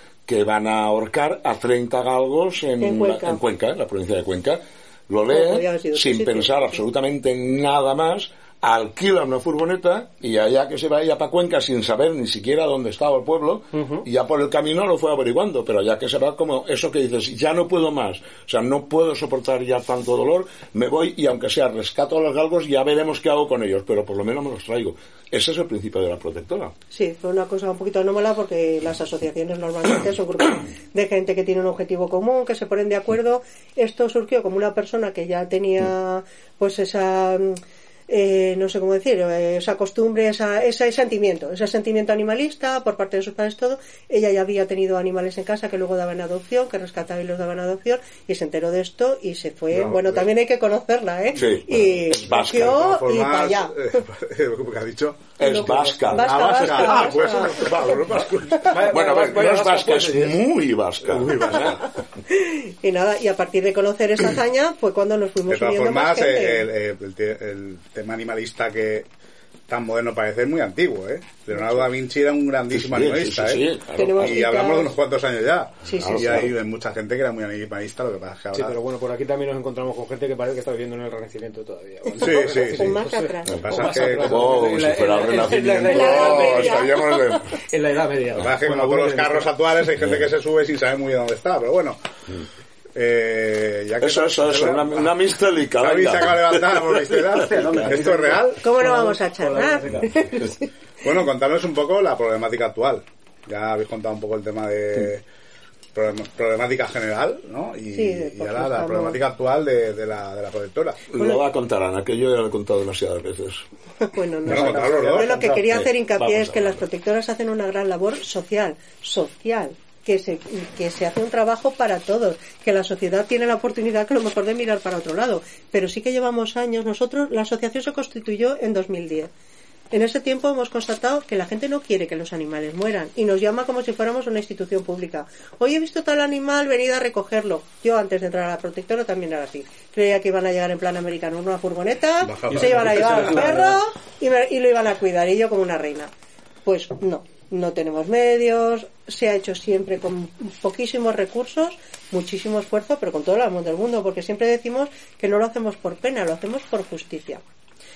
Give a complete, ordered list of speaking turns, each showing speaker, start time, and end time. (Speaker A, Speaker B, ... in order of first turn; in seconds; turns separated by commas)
Speaker A: 0.3-26.7, Speaker B: 2.8-3.4, Speaker B: 5.3-6.8, Speaker C: 13.7-14.1, Speaker B: 26.9-54.0, Speaker D: 49.7-50.3, Speaker A: 51.4-52.7, Speaker D: 52.5-55.3, Speaker A: 55.4-56.9, Speaker B: 55.4-58.7, Speaker D: 56.1-58.6, Speaker C: 58.6-60.4, Speaker A: 58.9-61.8, Speaker D: 61.0-61.8, Speaker B: 62.3-66.7, Speaker D: 65.5-69.1, Speaker D: 69.7-73.7, Speaker B: 71.5-71.8, Speaker A: 72.7-74.4, Speaker B: 73.9-74.9, Speaker D: 74.2-78.8, Speaker B: 75.8-76.5, Speaker A: 76.0-76.5, Speaker C: 78.5-86.8, Speaker D: 82.2-83.0, Speaker B: 82.2-84.1, Speaker D: 83.6-84.6, Speaker A: 84.3-87.4, Speaker B: 85.8-87.4, Speaker D: 86.4-86.7, Speaker C: 87.7-89.5, Speaker D: 88.4-92.0, Speaker A: 90.0-90.3, Speaker D: 93.0-95.1, Speaker A: 94.0-98.2, Speaker D: 95.8-98.6, Speaker C: 97.7-100.0, Speaker B: 98.6-100.7, Speaker D: 101.0-105.2, Speaker D: 105.9-111.0, Speaker B: 107.9-109.2, Speaker A: 111.1-113.6, Speaker B: 111.2-111.4, Speaker B: 114.0-129.3, Speaker D: 114.5-115.6, Speaker C: 114.7-115.2, Speaker A: 115.4-116.8, Speaker B: 129.9-146.1, Speaker D: 142.3-143.5, Speaker C: 142.5-143.8, Speaker B: 146.7-157.4